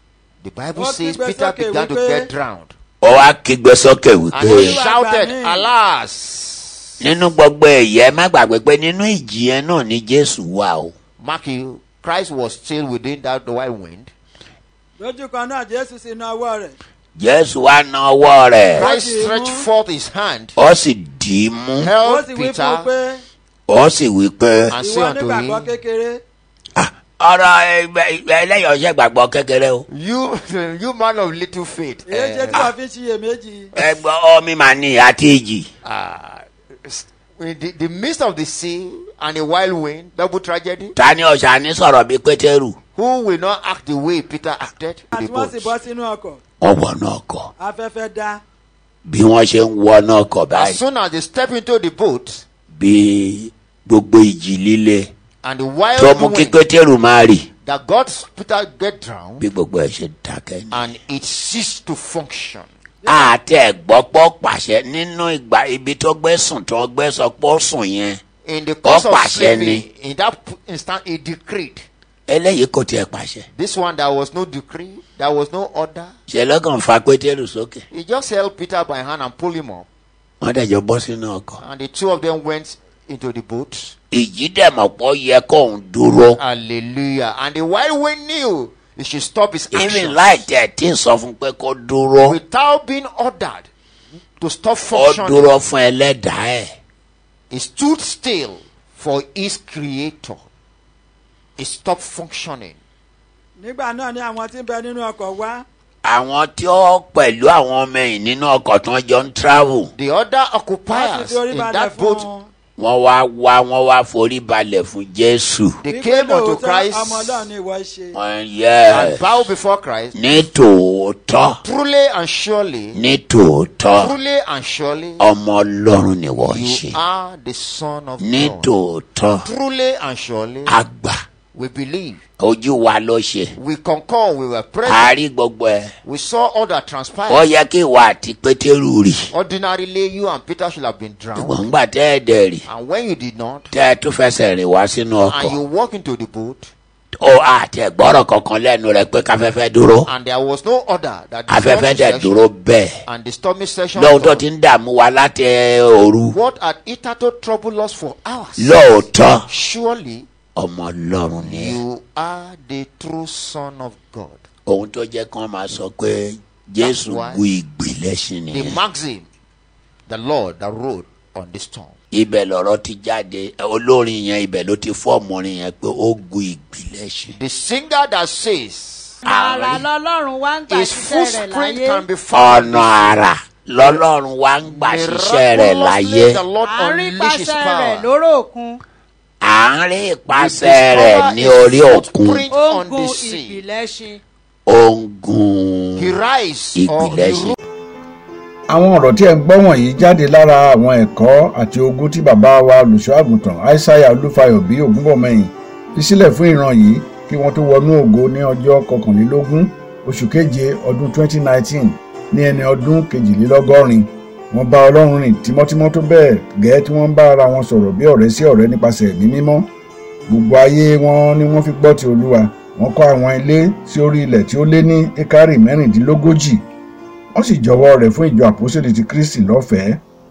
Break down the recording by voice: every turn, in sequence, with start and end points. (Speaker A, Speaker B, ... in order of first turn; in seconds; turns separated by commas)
Speaker A: 0.4-2.7, Speaker B: 0.8-2.3, Speaker C: 3.0-4.8, Speaker A: 4.3-7.0, Speaker B: 4.4-5.7, Speaker C: 7.0-10.9, Speaker A: 11.2-14.1, Speaker B: 15.0-16.8, Speaker C: 17.2-18.9, Speaker A: 18.8-20.6, Speaker B: 18.8-19.7, Speaker C: 20.6-21.9, Speaker A: 21.8-22.9, Speaker B: 22.0-23.2, Speaker C: 23.7-24.8, Speaker A: 24.7-25.7, Speaker B: 24.7-26.2, Speaker C: 26.8-29.8, Speaker A: 29.9-32.7, Speaker B: 32.1-33.7, Speaker C: 33.8-35.7, Speaker A: 35.8-40.9, Speaker C: 40.9-42.8, Speaker A: 42.9-45.7, Speaker B: 45.1-46.4, Speaker C: 46.6-47.5, Speaker B: 47.6-48.4, Speaker C: 49.0-50.8, Speaker A: 50.5-52.4, Speaker C: 52.8-55.1, Speaker A: 55.4-56.6, Speaker C: 56.0-57.5, Speaker A: 57.6-59.5, Speaker C: 59.4-60.8, Speaker A: 60.7-62.7, Speaker B: 63.0-63.3, Speaker C: 63.0-68.2, Speaker A: 68.4-71.9, Speaker C: 68.8-69.8, Speaker C: 72.3-73.5, Speaker A: 73.5-76.1, Speaker C: 76.3-77.8, Speaker A: 77.9-79.8, Speaker C: 80.4-81.6, Speaker A: 81.6-83.9, Speaker C: 84.1-86.4, Speaker A: 86.4-90.4, Speaker C: 89.7-92.4, Speaker A: 92.2-93.7, Speaker A: 94.4-95.6, Speaker C: 94.9-96.7, Speaker A: 97.5-100.5, Speaker A: 101.6-102.8, Speaker B: 103.6-105.6, Speaker C: 106.0-109.9, Speaker A: 109.9-112.3, Speaker B: 110.9-112.5, Speaker C: 112.8-115.8, Speaker A: 115.8-117.5, Speaker B: 115.8-118.2, Speaker C: 118.1-119.3, Speaker A: 118.9-120.5, Speaker C: 120.1-121.6, Speaker A: 121.6-123.0, Speaker C: 122.9-124.1, Speaker A: 124.0-125.2, Speaker C: 125.2-127.0, Speaker A: 126.5-128.7, Speaker C: 128.2-129.4, Speaker A: 129.4-130.8, Speaker C: 130.7-131.2, Speaker A: 131.5-132.2, Speaker C: 132.4-133.5, Speaker A: 133.6-135.1, Speaker C: 134.8-135.9, Speaker A: 136.0-137.5, Speaker C: 137.3-139.3, Speaker A: 139.3-141.7, Speaker C: 141.3-142.6, Speaker A: 142.7-143.7, Speaker C: 143.7-145.6, Speaker A: 145.2-146.7, Speaker C: 147.2-150.1, Speaker A: 150.0-152.4, Speaker C: 151.5-152.9, Speaker A: 153.1-154.4, Speaker C: 153.9-156.3, Speaker A: 156.3-160.3, Speaker C: 158.6-159.4, Speaker C: 160.6-161.8, Speaker A: 161.4-164.4, Speaker C: 164.7-168.8, Speaker A: 166.8-167.4, Speaker A: 168.5-169.3, Speaker A: 170.1-171.9, Speaker C: 172.1-177.3, Speaker A: 177.3-179.2, Speaker D: 179.2-182.1, Speaker C: 179.2-179.8, Speaker A: 180.7-183.2, Speaker C: 182.3-186.4, Speaker A: 183.8-184.0, Speaker A: 184.6-188.1, Speaker D: 186.6-188.8, Speaker C: 189.4-192.5, Speaker A: 190.3-193.7, Speaker D: 192.5-194.2, Speaker C: 194.7-196.1, Speaker A: 196.0-197.6, Speaker C: 196.8-197.6, Speaker E: 198.7-219.7, Speaker E: 220.3-226.6, Speaker E: 227.3-230.0